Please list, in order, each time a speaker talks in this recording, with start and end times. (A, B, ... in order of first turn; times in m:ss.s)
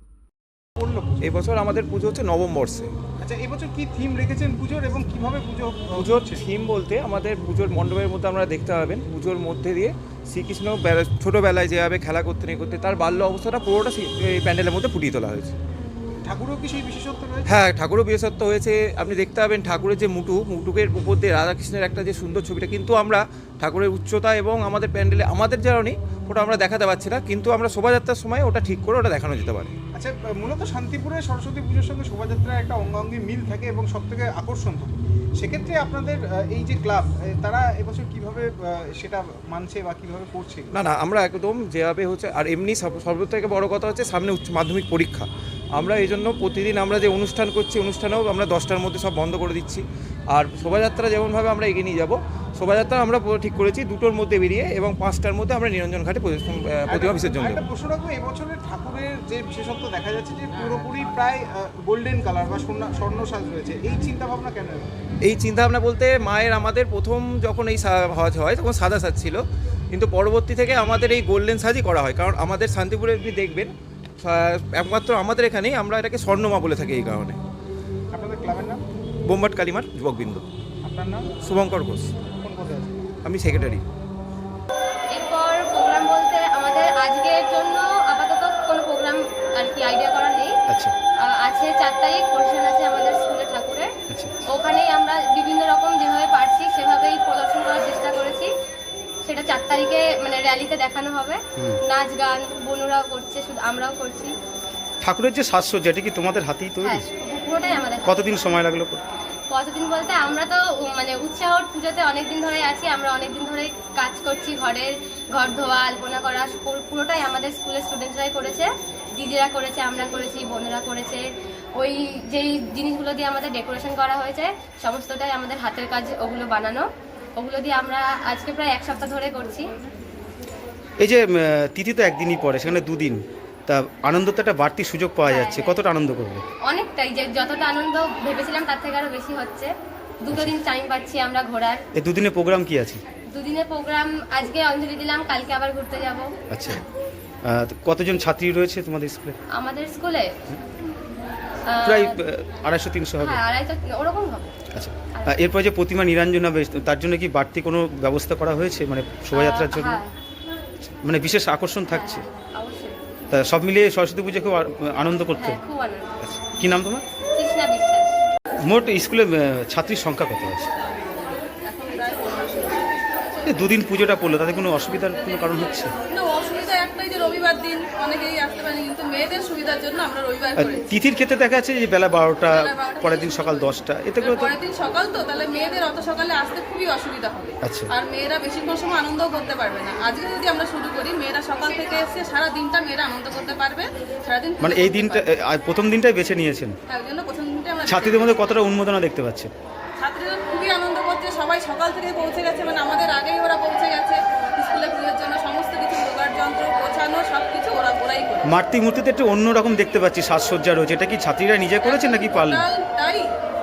0:00.8-0:01.1 A
0:01.2-0:02.9 B
0:03.2-0:06.4 A
0:06.0-0:15.5 B
0:16.2-0:17.6 A
0:17.5-0:29.7 B
0:29.9-0:40.7 A
0:40.7-0:57.6 B
0:56.9-1:04.9 A
1:05.2-1:09.4 B
1:09.9-1:17.4 B
1:18.1-1:18.8 A
1:19.2-1:20.4 B
1:20.8-1:21.3 A
1:21.4-1:22.1 B
1:22.4-1:23.1 A
1:23.2-1:23.8 B
1:25.2-1:30.5 C
1:31.3-1:33.9 C
1:34.1-1:34.4 D
1:34.5-1:38.5 C
1:39.2-1:44.3 C
1:45.0-1:47.1 D
1:46.8-1:48.1 C
1:48.0-1:49.1 D
1:49.5-2:01.2 C
2:01.8-2:06.8 C
2:07.4-2:09.7 C
2:11.0-2:16.4 D
2:15.3-2:15.8 C
2:16.6-2:19.7 C
2:20.2-2:21.8 C
2:22.0-2:23.0 D
2:23.3-2:26.3 C
2:26.5-2:26.8 D
2:27.5-2:29.4 D
2:29.5-2:30.3 C
2:31.7-2:32.2 C
2:31.8-2:33.4 D
2:33.2-2:34.6 C
2:34.7-2:40.0 D
2:35.1-2:35.5 C
2:39.3-2:40.1 C
2:40.8-2:42.2 D
2:41.9-2:43.0 C
2:43.3-2:45.6 D
2:45.4-2:46.2 C
2:46.2-2:47.0 D
2:47.4-2:48.1 C
2:48.6-2:50.7 D
2:50.9-2:52.9 E
2:53.4-2:55.9 D
2:56.1-3:00.8 E
3:00.6-3:04.5 D
3:02.4-3:15.2 E
3:07.6-3:07.9 D
3:14.6-3:16.8 D
3:16.9-3:18.5 E
3:17.8-3:19.5 D
3:20.0-3:28.5 E
3:28.4-3:32.6 D
3:31.8-3:33.3 E